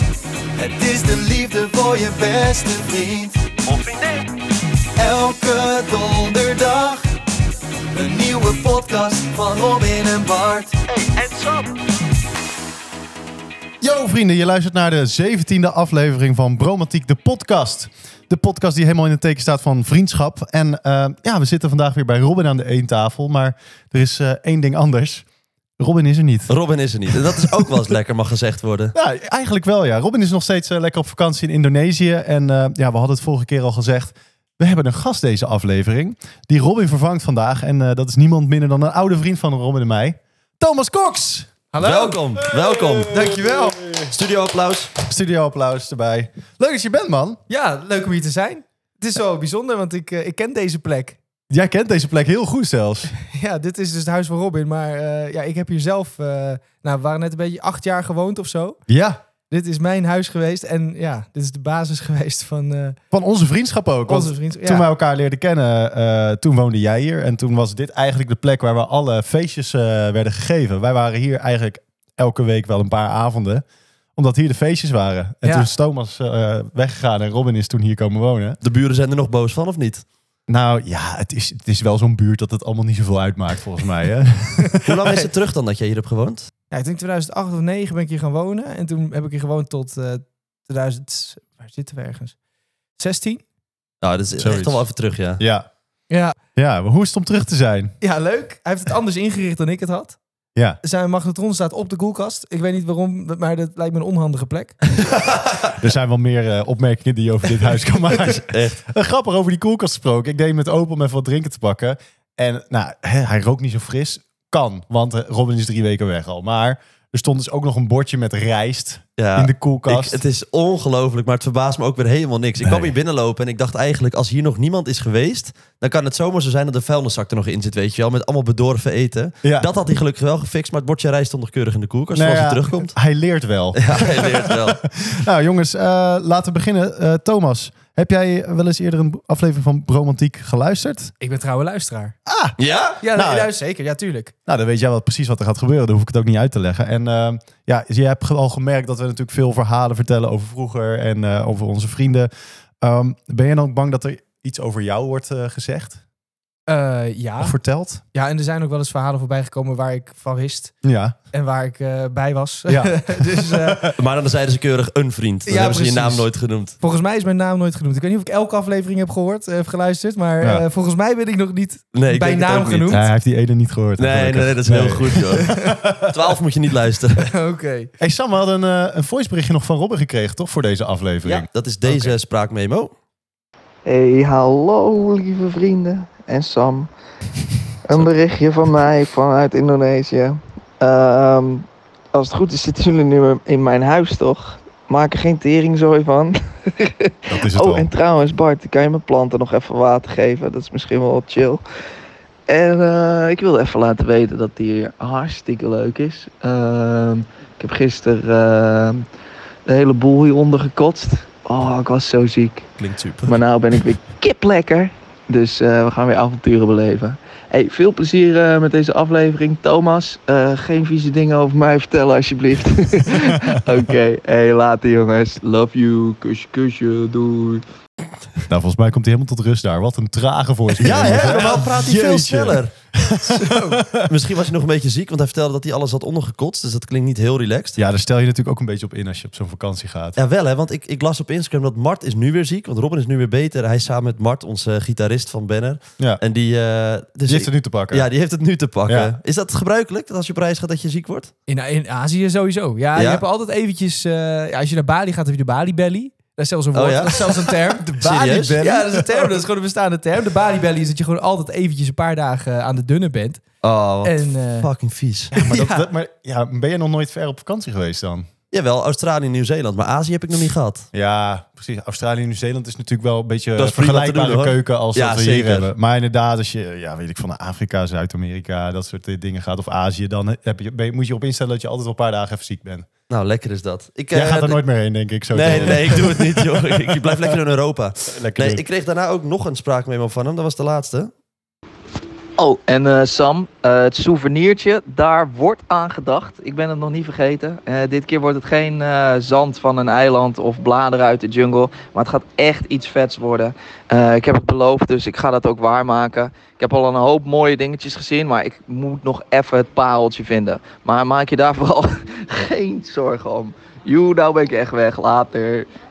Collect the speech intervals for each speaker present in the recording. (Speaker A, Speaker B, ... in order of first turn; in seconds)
Speaker A: 0.6-3.5, 5.0-7.0, 8.0-10.7
Speaker B: 3.6-4.3, 26.5-28.9, 41.8-43.3, 44.1-44.9, 78.6-80.0, 84.8-86.5, 94.0-95.4, 108.3-108.8, 119.2-132.9, 133.8-134.8, 142.6-143.0, 163.9-166.8, 171.9-173.0, 174.0-177.3, 181.2-182.9, 212.8-213.4, 230.8-232.7, 234.0-237.8, 240.2-251.3, 252.9-253.2, 256.7-258.6, 263.6-265.3, 268.5-270.9, 273.6-275.7, 283.1-284.6, 285.3-291.1
Speaker C: 13.8-25.3, 25.8-26.5, 27.1-27.5, 28.9-41.6, 42.4-44.1, 45.0-47.4, 51.5-53.1, 58.9-59.2, 63.1-73.6, 74.2-78.6, 80.5-85.2, 94.4-94.8, 95.4-95.7, 96.6-98.0, 105.8-120.2, 122.6-122.9, 129.4-129.7, 132.1-141.1, 142.3-142.6, 143.1-143.5, 144.5-152.3, 152.8-156.0, 157.4-158.0, 160.8-161.2, 162.7-163.9, 172.9-176.2, 178.0-181.5, 197.3-197.9, 228.5-234.1, 237.8-240.2, 247.3-248.1, 248.9-249.1, 257.8-259.3, 265.3-268.3, 270.9-282.9, 284.1-287.0, 288.1-288.6
Speaker D: 41.7-42.2, 43.1-43.8, 47.5-51.2, 53.2-58.8, 59.5-63.0, 64.1-64.9, 75.4-75.7, 86.7-92.4, 93.0-93.4, 96.1-96.4, 98.0-100.2, 100.8-104.8, 141.2-142.2, 143.0-144.3, 156.7-157.6, 158.1-160.7, 161.3-163.9, 165.5-166.3, 166.8-173.0, 175.3-175.8, 177.2-177.9, 181.9-182.1, 233.4-233.8, 251.5-257.9, 258.6-263.4, 264.0-264.7, 265.4-265.9
Speaker E: 183.8-186.9, 187.9-201.6, 202.5-209.1, 209.7-212.7, 213.2-227.6, 292.4-315.7